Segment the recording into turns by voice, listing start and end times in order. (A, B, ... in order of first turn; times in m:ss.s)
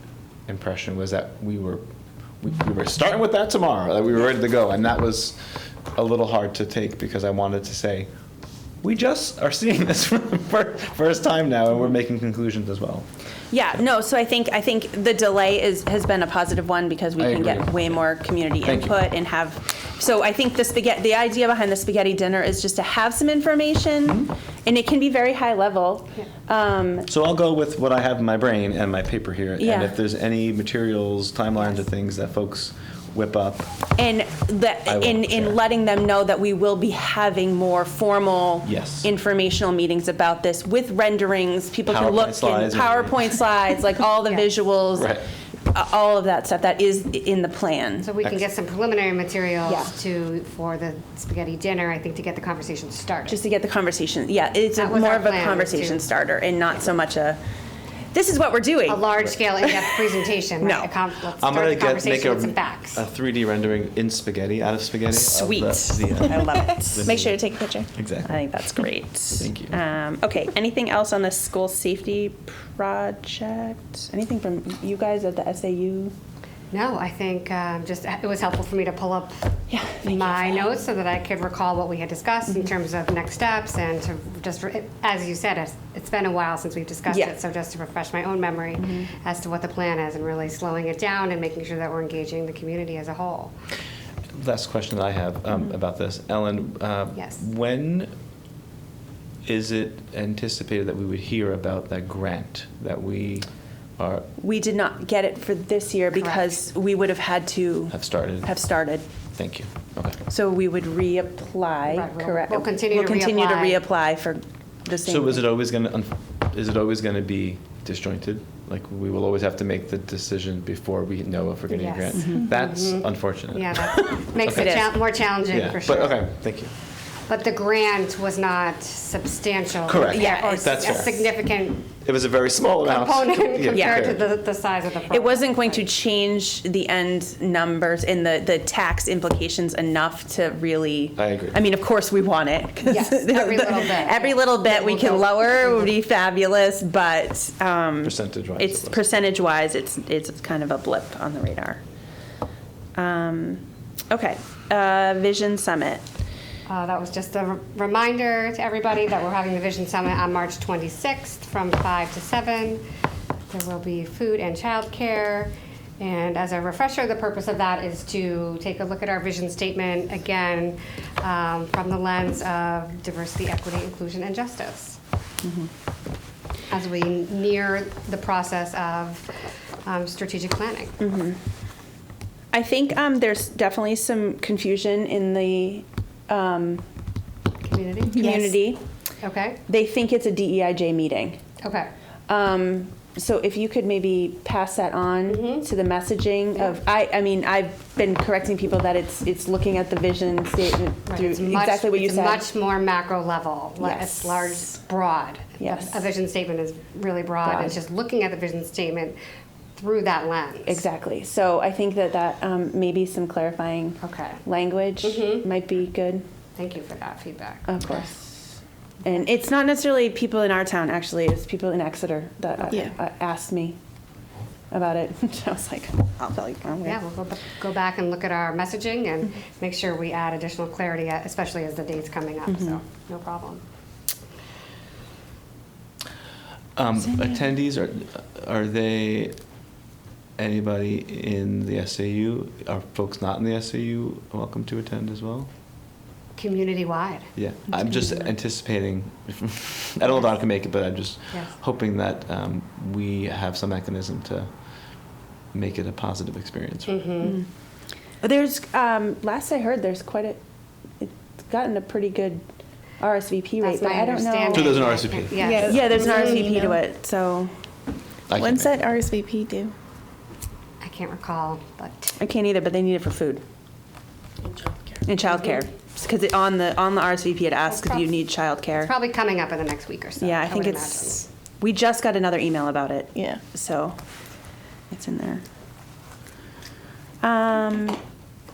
0:00.5-0:01.8 A
0:02.4-0:05.4 A
0:05.9-0:08.1 A
0:08.8-0:13.0 A
0:13.5-0:27.1 B
0:17.2-0:18.0 A
0:18.6-0:19.0 A
0:24.0-0:24.3 A
0:27.1-0:33.7 A
0:29.6-0:29.9 B
0:34.0-0:45.2 B
0:34.8-0:35.6 A
0:38.6-0:39.1 A
0:41.8-0:43.4 A
0:44.9-0:45.3 A
0:45.7-0:48.1 B
0:48.0-0:53.4 C
0:49.6-0:49.9 B
0:53.3-0:57.4 B
0:54.7-0:56.0 C
0:58.1-0:59.9 B
0:58.9-1:03.0 C
1:00.6-1:00.9 B
1:01.4-1:07.4 A
1:05.1-1:16.1 B
1:07.0-1:07.9 D
1:07.9-1:08.4 A
1:09.4-1:09.8 A
1:16.7-1:19.5 C
1:19.7-1:20.7 B
1:20.0-1:33.5 C
1:28.8-1:29.0 B
1:34.3-1:38.1 A
1:37.1-1:37.4 C
1:39.4-1:43.5 A
1:44.0-1:44.3 A
1:44.4-1:49.0 B
1:46.1-1:46.5 C
1:47.9-1:48.5 A
1:49.3-1:50.2 A
1:50.3-1:55.5 B
1:51.9-1:53.8 C
1:55.0-2:04.9 A
2:01.7-2:06.2 C
2:02.2-2:02.4 B
2:04.5-2:04.9 B
2:05.5-2:06.7 A
2:07.3-2:11.9 C
2:09.8-2:11.3 A
2:10.1-2:11.0 B
2:12.0-2:14.3 A
2:12.9-2:15.9 C
2:13.7-2:14.0 B
2:15.1-2:31.8 B
2:21.2-2:21.6 A
2:22.8-2:25.9 C
2:28.0-2:29.0 A
2:32.9-2:36.0 B
2:36.7-2:42.8 C
2:43.5-2:55.0 C
2:55.4-2:55.7 B
2:56.7-2:59.3 C
2:59.8-3:01.0 C
3:01.0-3:01.4 B
3:02.5-3:06.8 B
3:07.6-3:08.4 C
3:08.2-3:08.5 D
3:08.2-3:08.8 B
3:09.2-3:09.6 C
3:09.7-3:11.4 B
3:11.6-3:11.9 C
3:12.3-3:22.4 B
3:15.3-3:15.6 C
3:21.1-3:29.2 C
3:23.8-3:24.6 B
3:25.6-3:26.1 B
3:27.4-3:27.7 B
3:29.8-3:30.8 C
3:30.7-3:36.2 B
3:34.0-3:34.4 C
3:35.0-3:35.5 C
3:36.6-3:38.1 C
3:37.7-3:38.5 B
3:39.0-3:43.8 B
3:44.7-3:47.0 B
3:46.8-3:53.6 C
3:52.5-3:52.8 B
3:56.8-3:59.4 A
4:00.4-4:05.5 A
4:06.4-4:07.3 C
4:07.3-4:14.7 A
4:15.5-4:17.0 A
4:16.9-4:17.4 C
4:18.2-4:20.4 B
4:21.0-4:22.4 B
4:23.0-4:24.9 B
4:23.6-4:26.7 C
4:24.5-4:25.4 A
4:25.4-4:26.8 D
4:25.5-4:27.5 B
4:28.3-4:28.8 A
4:28.3-4:29.4 B
4:29.2-4:29.7 D
4:30.8-4:32.2 C
4:32.2-4:33.4 B
4:35.0-4:38.9 B
4:37.7-4:38.1 C
4:38.7-4:41.2 C
4:40.2-4:44.0 B
4:43.1-4:43.4 D
4:44.9-4:45.4 B
4:47.2-4:48.0 B